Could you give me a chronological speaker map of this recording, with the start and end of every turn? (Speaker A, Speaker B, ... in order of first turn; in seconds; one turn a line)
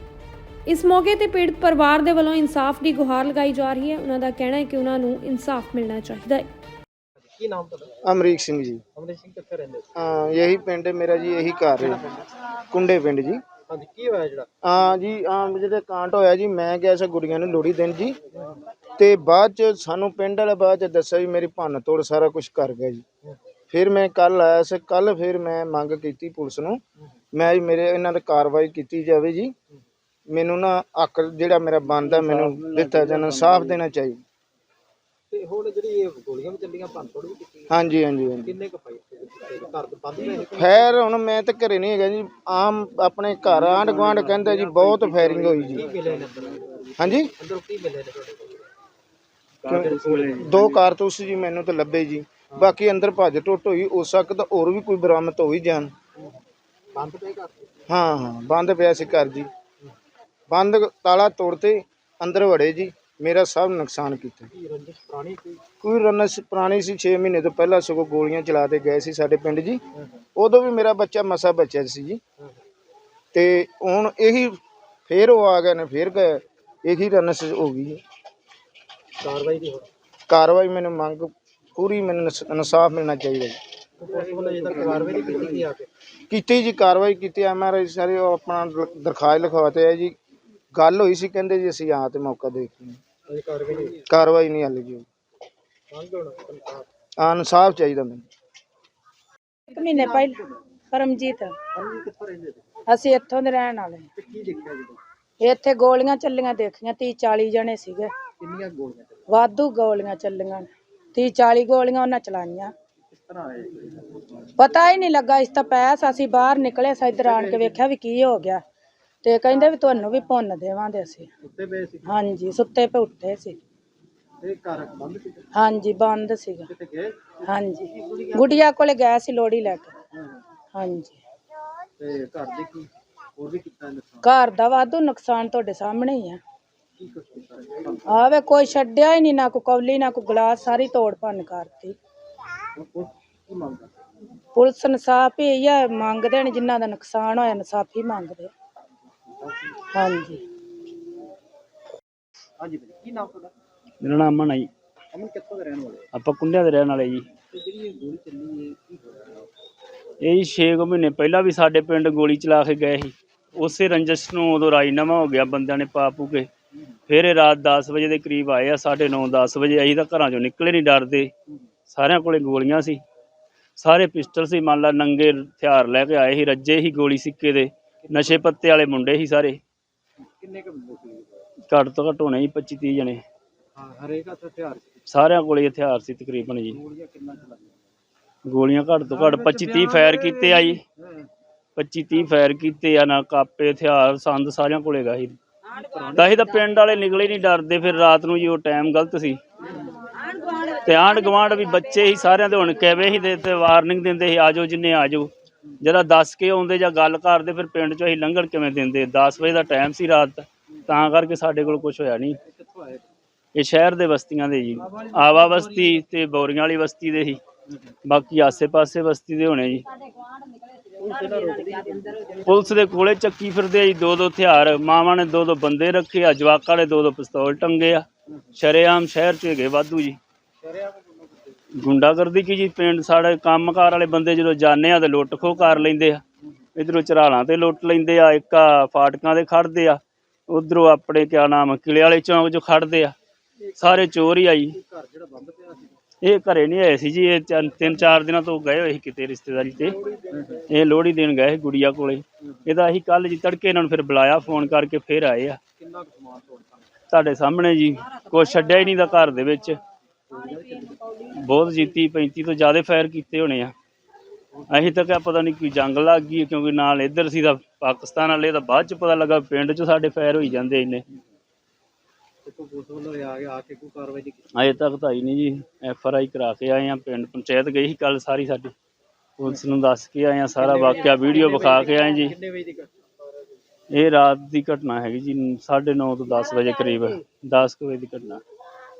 Speaker A: 0.7-6.5
Speaker B: 7.2-7.9
Speaker C: 8.0-8.8
Speaker B: 9.0-9.9
Speaker C: 10.0-12.0
Speaker B: 11.8-12.3
Speaker C: 12.7-13.4
Speaker B: 13.7-14.5
Speaker C: 14.6-18.2
Speaker C: 19.0-23.0
Speaker C: 23.7-26.8
Speaker C: 27.3-29.5
Speaker C: 30.3-34.2
Speaker D: 32.1-33.8
Speaker B: 35.3-37.7
Speaker C: 37.7-38.6
Speaker B: 38.5-40.9
Speaker C: 40.5-45.9
Speaker B: 43.6-48.7
Speaker C: 47.0-47.3
Speaker D: 49.6-50.3
Speaker B: 49.7-50.7
Speaker C: 49.7-55.9
Speaker B: 57.0-57.7
Speaker C: 57.9-59.5
Speaker C: 60.5-64.5
Speaker B: 64.5-65.6
Speaker C: 65.8-69.8
Speaker C: 70.4-72.2
Speaker C: 73.3-74.6
Speaker C: 75.1-78.0
Speaker B: 79.2-79.9
Speaker C: 80.3-83.6
Speaker B: 84.0-85.9
Speaker C: 86.3-90.2
Speaker C: 90.8-93.0
Speaker B: 93.3-94.0
Speaker C: 94.1-95.1
Speaker B: 95.9-96.9
Speaker C: 97.2-98.3
Speaker E: 99.7-100.4
Speaker B: 99.8-100.5
Speaker E: 100.9-101.6
Speaker B: 101.7-102.6
Speaker E: 102.9-104.1
Speaker B: 104.2-105.0
Speaker E: 105.4-108.1
Speaker B: 108.4-109.2
Speaker E: 109.3-112.7
Speaker B: 113.1-114.2
Speaker E: 114.6-118.6
Speaker B: 117.2-117.7
Speaker E: 119.2-121.3
Speaker B: 121.4-122.1
Speaker E: 122.1-123.6
Speaker B: 124.4-125.5
Speaker E: 125.5-126.7
Speaker B: 126.7-128.6
Speaker E: 127.4-129.9
Speaker E: 130.7-131.2
Speaker B: 132.0-134.3
Speaker E: 134.2-136.4
Speaker B: 137.0-138.0
Speaker E: 138.1-142.0
Speaker B: 142.8-143.9
Speaker E: 144.6-148.5
Speaker B: 149.4-149.8
Speaker E: 149.9-150.4
Speaker B: 152.6-153.5
Speaker D: 154.0-154.7
Speaker B: 155.1-156.1
Speaker D: 156.1-157.2
Speaker B: 157.5-159.5
Speaker D: 160.2-166.5
Speaker D: 167.1-171.3
Speaker D: 171.9-173.0
Speaker D: 173.8-179.6
Speaker B: 178.1-178.4
Speaker B: 180.2-181.4
Speaker D: 181.7-183.2
Speaker B: 183.8-185.0
Speaker D: 185.1-186.8
Speaker B: 186.7-187.8
Speaker D: 188.5-190.8
Speaker B: 189.2-191.3
Speaker D: 191.8-195.4
Speaker B: 195.8-196.6
Speaker D: 196.2-199.4
Speaker D: 200.6-212.4
Speaker B: 212.5-213.0
Speaker D: 213.6-217.4
Speaker D: 218.1-219.9
Speaker B: 221.0-222.3
Speaker D: 222.4-230.2
Speaker B: 230.6-231.6
Speaker D: 231.8-236.2
Speaker D: 236.8-243.2
Speaker B: 243.6-244.1
Speaker D: 243.8-244.8
Speaker B: 244.7-246.0
Speaker D: 246.2-250.0
Speaker B: 250.1-250.6
Speaker D: 250.7-255.6
Speaker B: 255.8-256.9
Speaker D: 257.1-259.8
Speaker B: 260.3-261.2
Speaker D: 261.3-263.7
Speaker B: 264.5-264.9
Speaker D: 264.7-271.0
Speaker B: 272.4-274.5
Speaker D: 274.5-278.7
Speaker D: 279.4-282.4
Speaker B: 280.6-282.9
Speaker D: 283.9-288.4